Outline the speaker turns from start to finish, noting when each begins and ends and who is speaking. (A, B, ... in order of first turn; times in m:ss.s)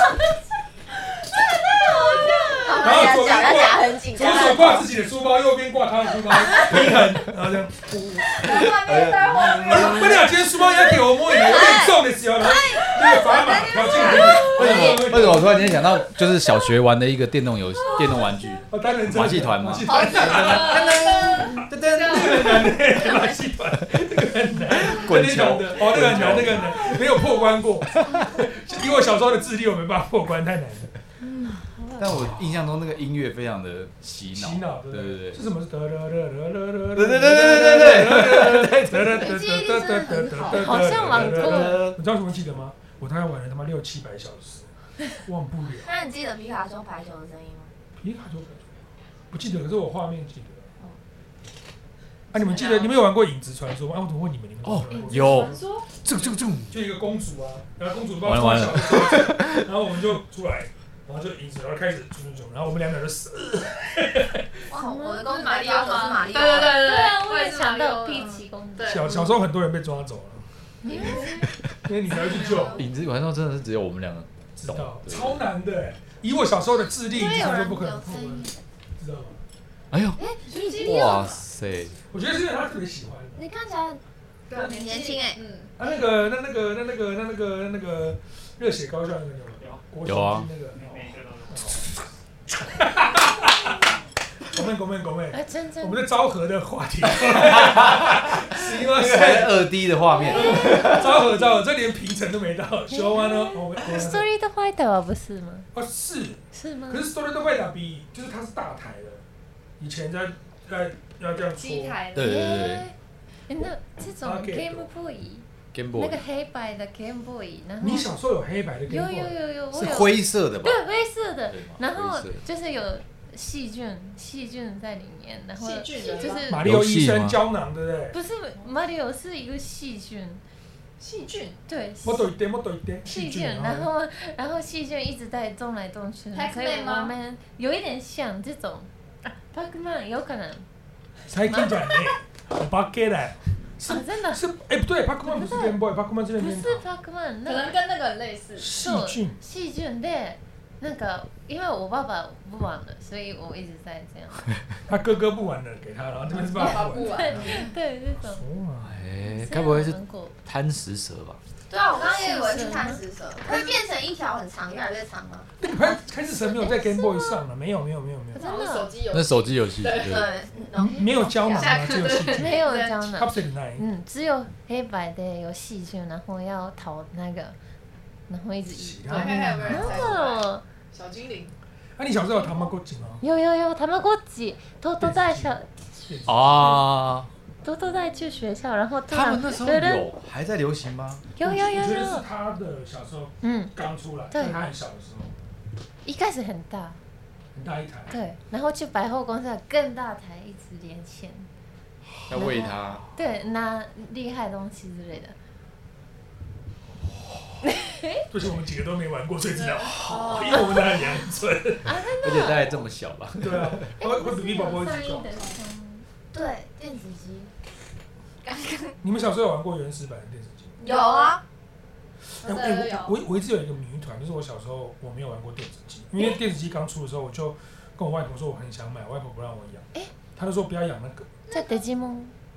0:01.9-0:04.9 A
0:02.4-0:02.9 B
0:02.8-0:08.4 C
0:06.7-0:07.0 D
0:08.4-0:10.2 E
0:08.4-0:10.3 D
0:08.5-0:15.0 A
0:09.6-0:15.8 C
0:14.3-0:22.8 D
0:18.7-0:30.9 C
0:19.9-0:21.4 E
0:19.9-0:20.8 A
0:22.0-0:22.3 E
0:24.7-0:27.1 D
0:27.9-0:28.3 D
0:31.4-0:32.3 B
0:32.0-0:35.4 D
0:34.4-0:45.9 C
0:37.0-0:39.1 D
0:38.9-0:40.6 A
0:40.4-0:41.9 B
0:40.8-0:42.0 D
0:45.8-0:47.7 A
0:48.0-0:50.7 C
0:52.3-0:55.6 C
0:52.3-0:53.0 E
0:54.6-0:56.8 D
0:54.9-0:55.9 E
0:55.1-0:55.5 B
0:56.7-1:04.6 C
0:58.2-0:59.7 D
1:04.7-1:06.9 A
1:04.8-1:05.2 B
1:05.2-1:09.2 E
1:06.7-1:09.4 B
1:08.9-1:11.3 C
1:10.8-1:11.5 B
1:11.0-1:11.3 A
1:11.8-1:12.8 C
1:12.2-1:12.8 E
1:12.3-1:12.8 A
1:12.6-1:15.4 D
1:14.6-1:19.4 C
1:17.0-1:18.6 A
1:19.9-1:20.2 D
1:20.2-1:21.4 A
1:20.4-1:21.4 E
1:20.8-1:22.0 D
1:22.1-1:23.4 C
1:23.4-1:25.4 A
1:24.5-1:25.7 E
1:25.8-1:33.9 C
1:30.0-1:30.5 D
1:34.5-1:44.3 C
1:35.3-1:36.0 B
1:37.2-1:41.3 D
1:40.3-1:40.9 B
1:42.9-1:45.7 B
1:45.7-1:49.2 C
1:46.5-1:47.1 B
1:49.8-1:52.0 C
1:51.6-1:52.4 E
1:52.2-1:52.9 D
1:52.2-1:53.0 B
1:53.5-1:58.1 B
1:54.2-1:54.9 C
1:55.7-1:56.2 D
1:57.8-1:59.4 C
1:58.9-2:06.7 B
1:59.7-2:00.9 D
2:01.5-2:02.4 D
2:05.6-2:06.5 E
2:06.5-2:08.2 C
2:06.6-2:07.4 D
2:08.1-2:10.4 B
2:11.0-2:11.6 E
2:11.7-2:12.3 B
2:12.0-2:13.9 C
2:13.0-2:20.7 B
2:16.3-2:17.1 E
2:21.3-2:26.8 C
2:21.5-2:22.2 B
2:23.8-2:24.4 B
2:25.2-2:25.8 B
2:26.4-2:27.8 B
2:27.4-2:28.7 E
2:28.6-2:29.4 C
2:28.7-2:34.5 B
2:34.9-2:37.7 C
2:36.5-2:37.7 E
2:37.1-2:38.4 B
2:38.2-2:39.0 C
2:38.8-2:41.4 D
2:39.3-2:40.3 B
2:41.7-2:45.5 A
2:41.9-2:43.0 B
2:45.6-2:48.4 C
2:45.8-2:47.4 B
2:48.3-2:48.9 B
2:48.4-2:50.4 E
2:49.1-2:50.2 D
2:50.0-2:52.2 A
2:50.8-2:53.9 C
2:51.5-2:53.1 E
2:52.3-2:57.6 B
2:58.3-3:00.6 B
2:58.7-3:00.2 C
2:59.1-3:01.5 E
3:02.0-3:03.2 C
3:02.4-3:02.7 B
3:03.2-3:06.1 B
3:05.0-3:06.8 C
3:06.3-3:07.3 D
3:07.6-3:10.1 B
3:09.1-3:11.2 D
3:11.4-3:12.3 B
3:11.4-3:15.4 C
3:13.4-3:13.8 B
3:14.3-3:14.6 B
3:16.0-3:17.0 B
3:17.6-3:18.2 C
3:18.1-3:21.5 B
3:22.1-3:22.5 C
3:22.3-3:23.0 D
3:22.4-3:25.4 B
3:27.0-3:27.7 C
3:27.6-3:28.2 B
3:28.3-3:32.0 C
3:29.6-3:30.8 E
3:30.2-3:30.6 A
3:31.8-3:32.8 B
3:32.0-3:33.9 D
3:33.4-3:35.3 C
3:34.0-3:36.1 B
3:36.3-3:37.5 A
3:38.4-3:39.0 A
3:39.0-3:40.8 C
3:40.8-3:41.4 A
3:40.8-3:41.4 E
3:42.3-3:51.3 C
3:42.4-3:43.2 E
3:51.5-3:51.8 A
3:51.5-3:52.3 B